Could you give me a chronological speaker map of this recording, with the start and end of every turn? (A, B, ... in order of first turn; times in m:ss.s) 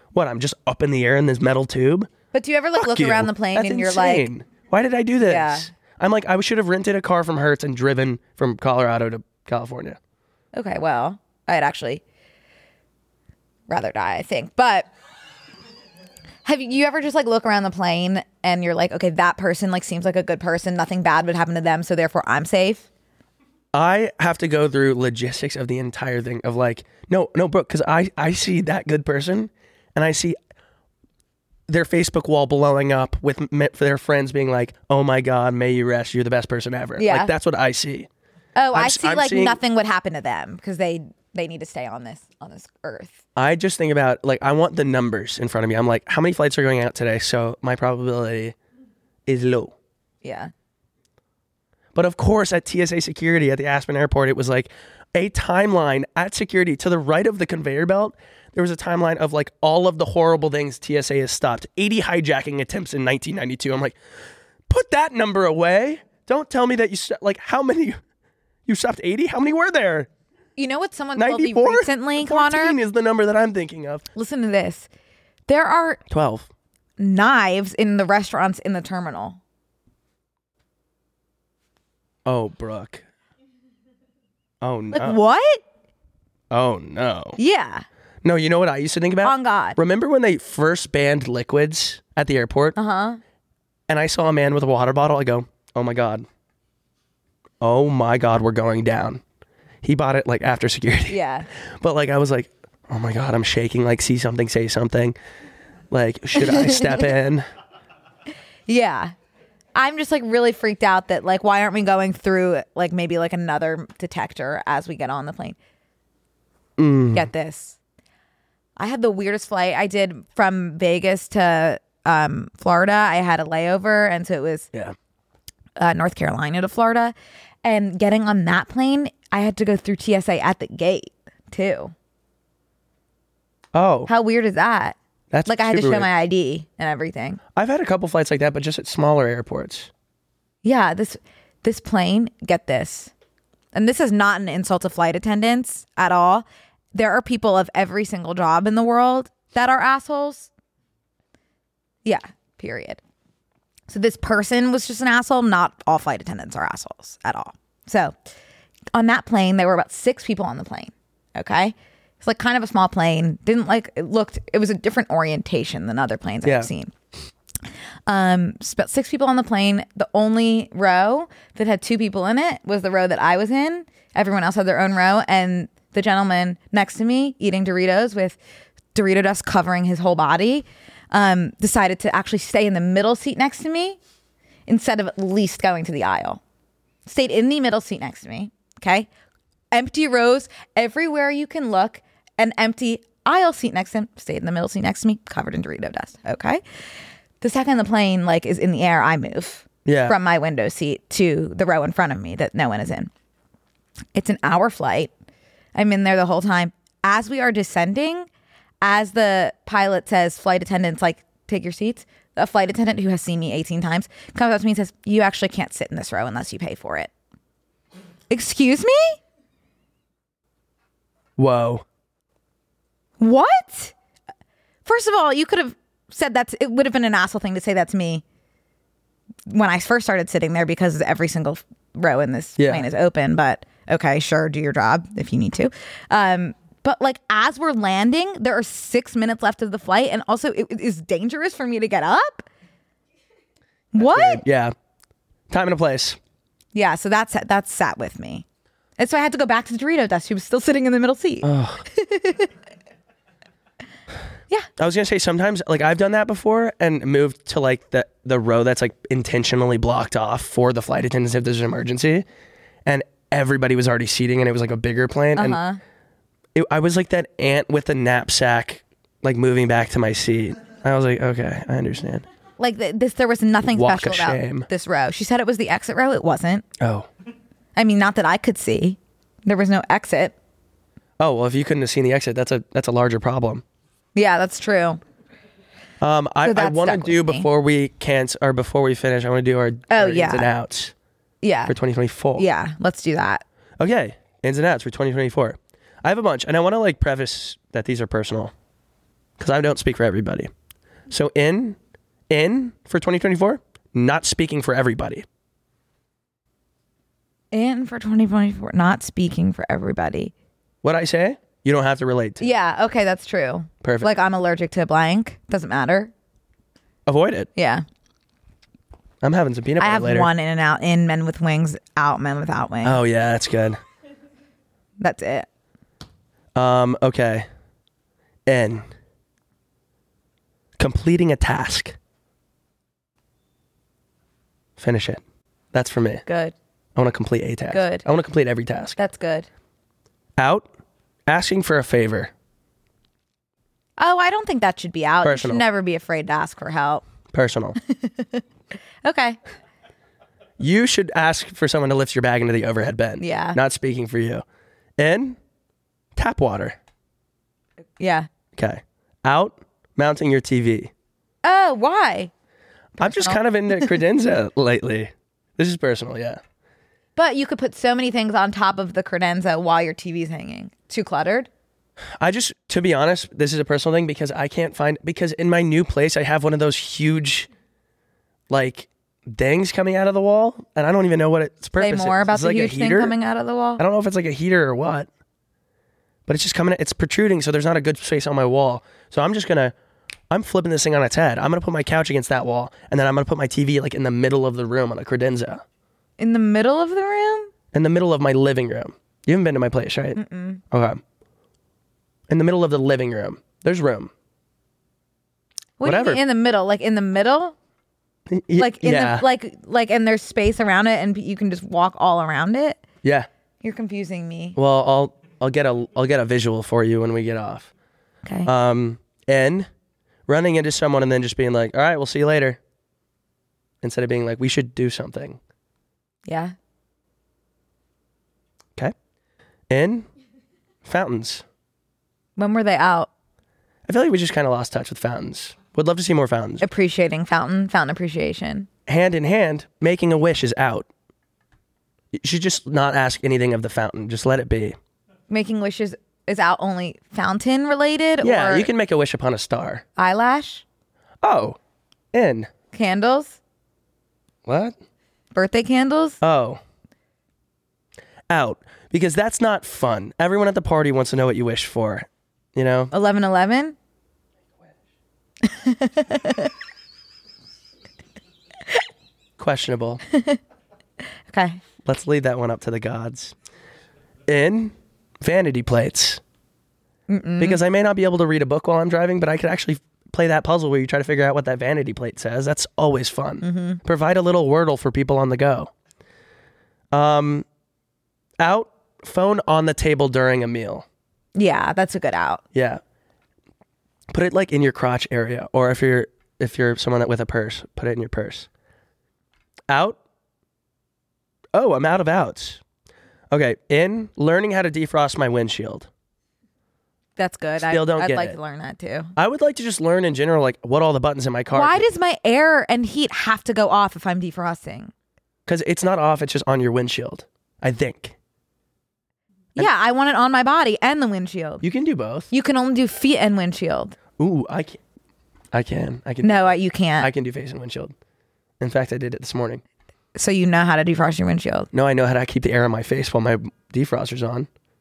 0:00.1-0:02.1 A
0:02.3-0:04.3 B
0:02.8-0:10.0 A
0:05.2-0:05.7 B
0:10.5-0:12.0 B
0:13.7-0:14.9 B
0:16.4-0:22.9 B
0:23.7-0:30.4 A
0:31.7-0:38.1 A
0:37.0-0:37.3 B
0:38.6-0:43.2 B
0:38.7-0:39.6 A
0:43.4-0:48.6 A
0:49.3-0:49.7 A
0:50.2-0:50.5 B
0:52.0-1:04.0 A
1:04.7-1:08.0 A
1:08.7-1:10.1 A
1:10.6-1:12.8 B
1:11.2-1:14.0 A
1:14.2-1:14.9 B
1:15.5-1:16.0 B
1:16.1-1:16.5 A
1:17.0-1:19.4 B
1:22.2-1:23.0 A
1:24.6-1:25.2 A
1:24.9-1:25.6 B
1:26.5-1:27.4 A
1:27.4-1:27.9 B
1:28.2-1:32.8 A
1:29.2-1:29.8 B
1:32.8-1:33.2 B
1:33.9-1:36.3 A
1:37.6-1:39.2 A
1:39.8-1:41.2 A
1:41.1-1:41.5 B
1:41.8-1:45.2 A
1:45.9-1:47.5 A
1:46.4-1:47.1 B
1:48.7-1:49.1 B
1:49.8-1:55.6 B
1:56.8-1:57.3 A
1:57.1-1:57.8 B
1:58.8-2:04.7 B
2:05.8-2:11.9 B
2:13.7-2:14.1 A
2:14.1-2:17.4 B
2:15.3-2:16.1 A
2:17.6-2:19.9 A
2:20.6-2:23.1 B
2:23.7-2:30.5 B
2:32.0-2:33.0 B
2:33.9-2:38.2 B
2:38.9-2:46.9 B
2:46.4-2:46.7 A
2:48.1-2:58.4 B
2:59.0-3:04.0 B
3:04.7-3:06.4 B
3:07.1-3:09.1 B
3:09.7-3:16.6 B
3:17.4-3:23.1 B
3:19.8-3:20.2 A
3:24.2-3:25.1 B
3:25.8-3:28.3 B
3:28.8-3:37.1 B
3:38.3-3:39.2 B
3:41.4-3:41.8 A
3:43.2-3:43.9 B
3:44.8-3:48.2 B
3:49.5-4:02.5 B
3:52.6-3:52.9 A
4:03.9-4:04.4 B
4:04.0-4:04.8 A
4:05.5-4:06.2 A
4:06.7-4:08.4 B
4:09.0-4:12.5 B
4:11.4-4:11.8 A
4:14.8-4:22.3 A
4:22.9-4:25.6 A
4:25.4-4:25.8 B
4:26.6-4:32.3 A
4:32.6-4:36.6 B
4:33.7-4:34.7 A
4:36.8-4:37.1 A
4:37.8-4:40.3 B
4:41.2-4:43.6 A
4:44.2-4:45.0 B
4:46.0-4:50.9 A
4:46.4-4:47.5 B
4:49.9-4:50.5 B
4:51.4-4:51.8 B
4:51.7-4:52.5 A
4:52.4-4:53.4 B
4:53.8-4:58.5 A
4:59.4-5:00.5 A
5:01.1-5:01.8 A
5:02.3-5:05.3 A
5:07.5-5:10.3 B
5:10.8-5:12.5 A
5:12.4-5:16.1 B
5:13.8-5:14.1 A
5:17.1-5:17.5 A
5:17.6-5:17.8 B
5:19.2-5:20.3 A
5:19.8-5:23.0 B
5:22.8-5:23.8 A
5:25.0-5:25.5 B
5:26.6-5:27.5 A
5:28.5-5:28.9 A
5:30.8-5:32.0 A
5:34.8-5:35.2 A
5:35.7-5:36.2 A
5:36.3-5:36.6 B
5:37.0-5:39.0 A
5:37.7-5:38.0 B
5:39.0-5:39.5 B
5:40.4-5:40.7 A
5:41.3-5:42.3 A
5:44.0-5:47.0 B
5:45.2-5:45.6 A
5:47.3-5:47.8 A
5:47.9-5:48.4 B
5:49.0-5:49.4 B
5:50.6-5:54.4 A
5:53.2-5:53.6 B
5:55.0-5:55.4 A
5:56.2-5:56.8 A
5:58.0-5:58.3 B
5:58.6-6:00.9 A
6:01.4-6:02.3 B
6:03.0-6:04.0 B
6:03.0-6:06.4 A
6:07.2-6:11.5 B
6:12.2-6:17.5 A
6:18.5-6:23.2 A
6:21.8-6:23.8 B
6:23.8-6:25.1 A
6:26.3-6:29.7 A
6:30.3-6:35.6 A
6:36.2-6:37.5 B
6:37.7-6:40.2 A
6:40.2-6:40.6 B
6:40.7-6:41.0 A
6:42.3-6:44.1 A
6:45.8-6:47.6 B
6:45.8-6:46.2 A
6:48.3-6:49.3 A
6:48.6-6:52.8 B
6:53.0-6:53.3 A
6:53.6-6:54.6 B
6:54.6-6:57.7 A
6:58.2-6:58.5 B
6:58.4-6:59.7 A
7:00.3-7:02.6 A
7:03.8-7:05.4 A
7:06.3-7:06.6 B
7:09.7-7:10.1 A
7:10.8-7:11.4 A
7:12.4-7:13.1 B
7:13.9-7:16.7 A
7:16.6-7:18.7 B
7:18.9-7:20.9 A
7:22.1-7:24.8 A
7:25.3-7:28.7 B
7:28.2-7:29.8 A
7:30.0-7:30.6 B
7:31.2-7:31.6 A
7:32.1-7:32.5 A
7:32.7-7:33.4 B
7:34.5-7:34.8 A
7:35.3-7:36.2 B
7:36.2-7:36.6 A
7:38.3-7:42.9 A
7:42.9-7:43.8 B
7:45.4-7:46.5 B
7:49.4-7:50.0 A
7:50.1-7:50.4 B
7:51.3-7:51.6 B
7:51.8-7:53.3 A
7:54.3-7:56.2 A
7:57.1-7:57.6 B
7:57.4-8:05.7 A
8:03.4-8:03.8 B
8:06.9-8:07.5 A
8:08.4-8:10.9 A
8:11.4-8:12.4 B
8:12.5-8:12.8 A
8:14.1-8:18.5 A
8:19.7-8:20.0 A
8:21.5-8:22.6 A
8:23.3-8:25.9 A
8:27.2-8:29.1 B
8:27.6-8:28.4 A
8:29.2-8:31.9 A
8:31.5-8:34.9 B
8:35.5-8:38.2 A
8:39.6-8:41.6 B
8:41.6-8:42.3 A
8:42.3-8:44.0 B
8:44.2-8:44.8 A
8:45.5-8:47.9 A
8:46.2-8:47.1 B
8:48.6-8:49.6 A
8:50.2-8:51.7 B
8:51.7-8:54.5 A